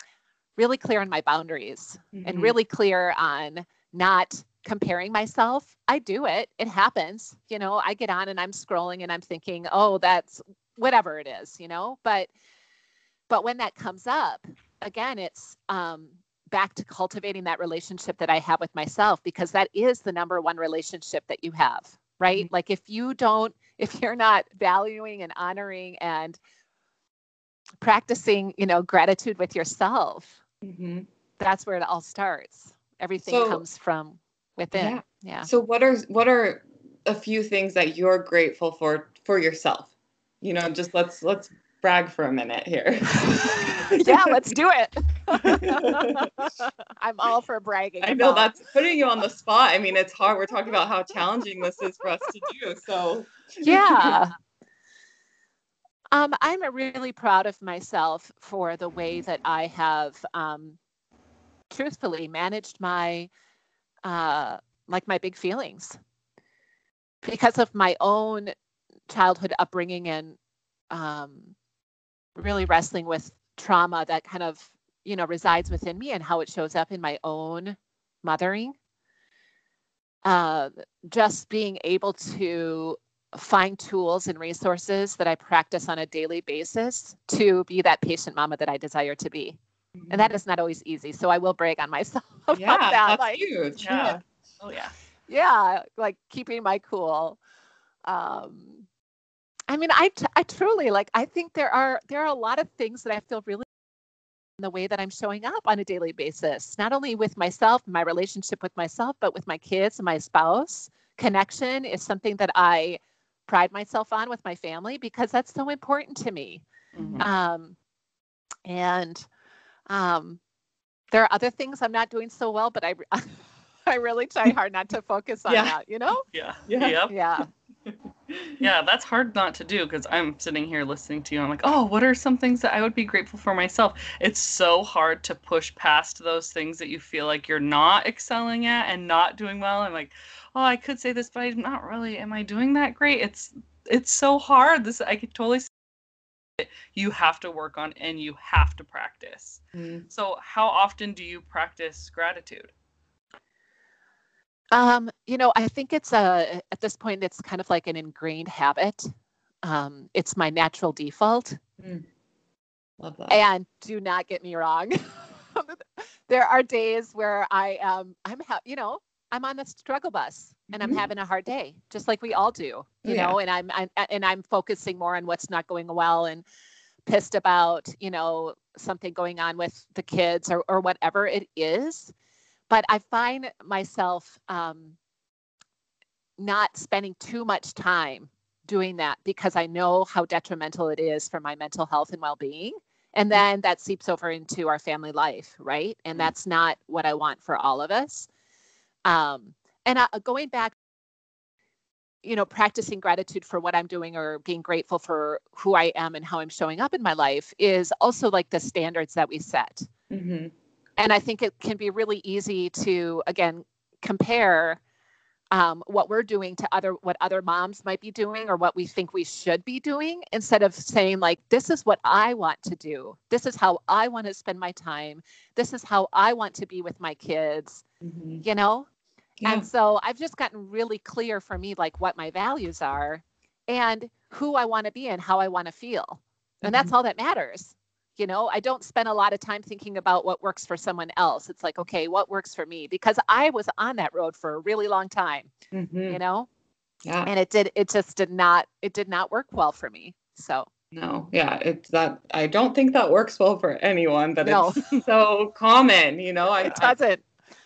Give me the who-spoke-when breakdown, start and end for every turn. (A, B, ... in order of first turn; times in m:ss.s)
0:00.6-0:12.3 A
0:02.1-0:02.6 B
0:13.3-0:26.4 A
0:27.8-0:30.4 A
0:30.6-0:31.1 B
0:31.4-0:35.5 A
0:33.3-0:33.6 B
0:34.7-0:44.4 B
0:43.9-0:48.6 A
0:45.4-0:46.3 B
0:48.0-0:54.2 B
0:53.6-0:54.3 A
0:56.1-1:00.8 A
1:01.7-1:03.3 A
1:04.0-1:06.0 A
1:07.2-1:08.5 A
1:09.1-1:10.4 A
1:10.9-1:11.6 A
1:12.4-1:18.8 A
1:20.2-1:29.6 A
1:30.0-1:30.3 B
1:30.1-1:33.5 A
1:32.5-1:34.2 B
1:33.8-1:34.9 C
1:35.3-1:37.4 A
1:38.1-1:38.9 A
1:39.7-1:43.7 A
1:44.6-1:56.6 A
1:57.0-1:57.3 C
1:57.0-1:57.3 B
1:57.2-1:57.8 A
1:58.7-1:59.3 A
1:59.9-2:00.4 A
2:01.1-2:06.2 A
2:05.5-2:05.8 B
2:06.3-2:07.1 C
2:06.7-2:07.0 B
2:07.1-2:07.5 A
2:08.3-2:08.6 B
2:08.6-2:25.7 C
2:26.6-2:32.7 C
2:29.8-2:30.0 B
2:34.7-2:39.1 A
2:39.6-2:41.6 A
2:41.8-2:42.1 B
2:43.0-2:43.4 B
2:43.3-2:56.4 A
2:50.7-2:51.1 B
2:53.0-2:53.4 B
2:57.1-3:02.1 A
3:02.7-3:05.0 A
3:06.4-3:18.3 A
3:19.1-3:20.7 A
3:22.2-3:29.9 A
3:30.1-3:30.5 B
3:31.0-3:34.8 A
3:35.5-3:47.8 A
3:48.0-3:48.4 B
3:48.4-3:48.9 A
3:49.4-3:49.7 B
3:49.4-4:05.5 A
3:56.6-3:56.9 B
4:05.7-4:06.2 B
4:06.1-4:06.5 A
4:07.0-4:07.3 B
4:07.3-4:10.7 A
4:10.9-4:17.0 B
4:14.4-4:15.0 A
4:16.6-4:17.2 A